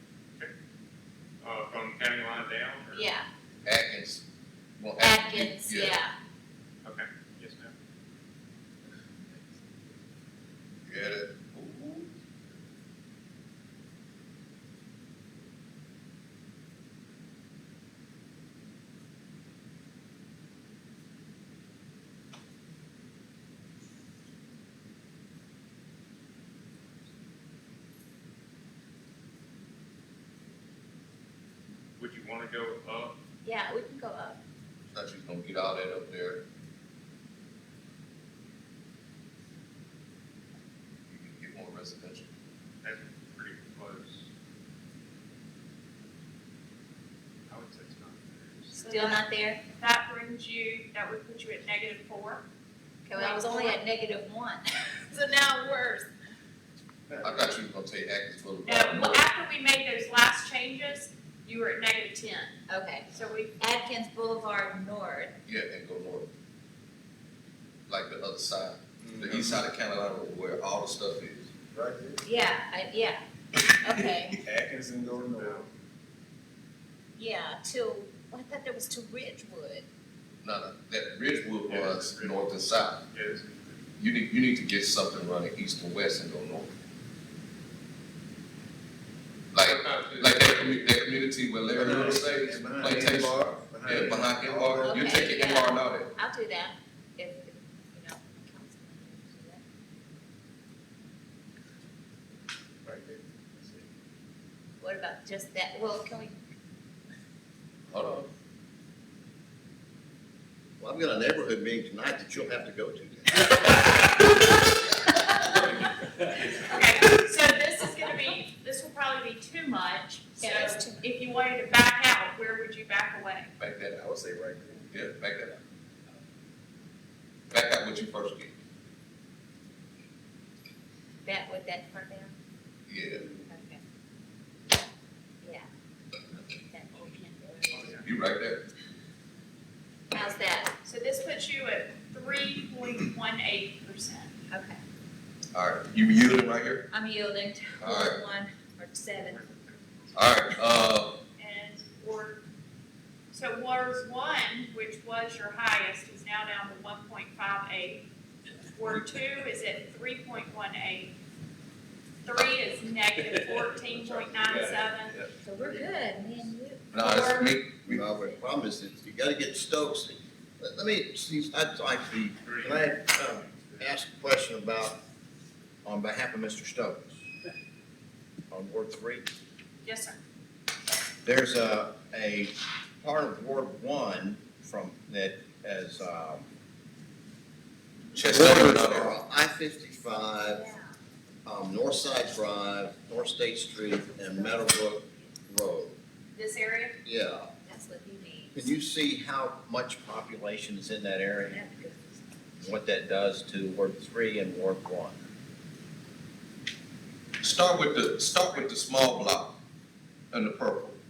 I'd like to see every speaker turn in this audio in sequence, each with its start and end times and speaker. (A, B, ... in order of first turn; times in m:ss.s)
0:01.4-0:03.1 A
0:02.9-0:03.3 B
0:03.6-0:04.2 C
0:04.8-0:06.0 C
0:05.0-0:06.1 B
0:06.8-0:07.7 A
0:10.9-0:12.1 C
0:32.0-0:33.2 A
0:33.4-0:34.4 B
0:34.9-0:36.4 C
0:41.1-0:42.3 C
0:42.8-0:44.2 A
0:47.5-0:48.8 A
0:48.7-0:49.6 B
0:48.8-0:49.3 D
0:49.8-0:52.4 D
0:53.0-0:56.1 B
0:53.1-0:53.8 D
0:57.1-0:57.5 E
0:57.2-0:59.2 C
0:58.6-1:03.5 D
1:02.7-1:05.4 B
1:05.4-1:06.3 C
1:07.9-1:11.5 C
1:09.0-1:09.6 E
1:11.7-1:12.2 E
1:12.2-1:14.4 B
1:14.4-1:15.7 E
1:15.1-1:15.7 A
1:17.2-1:19.8 B
1:20.4-1:23.0 C
1:21.7-1:23.8 A
1:24.0-1:26.7 C
1:29.5-1:36.1 C
1:29.6-1:30.9 A
1:31.7-1:35.2 E
1:34.8-1:39.6 B
1:42.8-1:43.9 E
1:44.8-1:46.4 B
1:47.9-1:48.3 C
1:50.8-1:53.4 F
1:56.5-2:03.5 D
2:00.4-2:01.0 B
2:03.6-2:04.1 C
2:04.0-2:05.0 E
2:04.9-2:05.6 C
2:07.5-2:08.5 C
2:11.2-2:12.3 B
2:12.9-2:13.3 C
2:13.4-2:13.8 B
2:15.4-2:15.7 B
2:16.7-2:18.0 B
2:17.7-2:18.0 A
2:18.0-2:18.6 C
2:20.1-2:20.7 B
2:20.8-2:24.3 D
2:24.5-2:24.8 B
2:25.5-2:26.8 C
2:26.9-2:29.4 B
2:27.8-2:28.2 C
2:29.2-2:30.4 A
2:30.2-2:31.2 C
2:31.4-2:32.4 D
2:33.3-2:38.0 D
2:38.6-2:41.2 D
2:42.2-2:45.2 D
2:44.3-2:45.3 C
2:45.4-2:46.9 B
2:46.9-2:48.1 C
2:46.9-2:47.6 D
2:47.8-2:55.0 F
2:48.1-2:48.4 B
2:52.4-2:53.9 A
2:55.8-2:57.2 F
2:58.5-2:59.3 F
2:59.8-3:00.2 D
3:01.2-3:06.5 F
3:08.1-3:09.2 C
3:08.2-3:10.7 F
3:10.4-3:10.9 B
3:11.4-3:16.0 F
3:13.7-3:15.3 B
3:16.3-3:17.0 D
3:17.0-3:17.5 F
3:17.6-3:18.7 B
3:18.5-3:21.7 F
3:21.4-3:22.2 B
3:22.6-3:25.2 F
3:27.4-3:29.6 C
3:30.3-3:31.0 C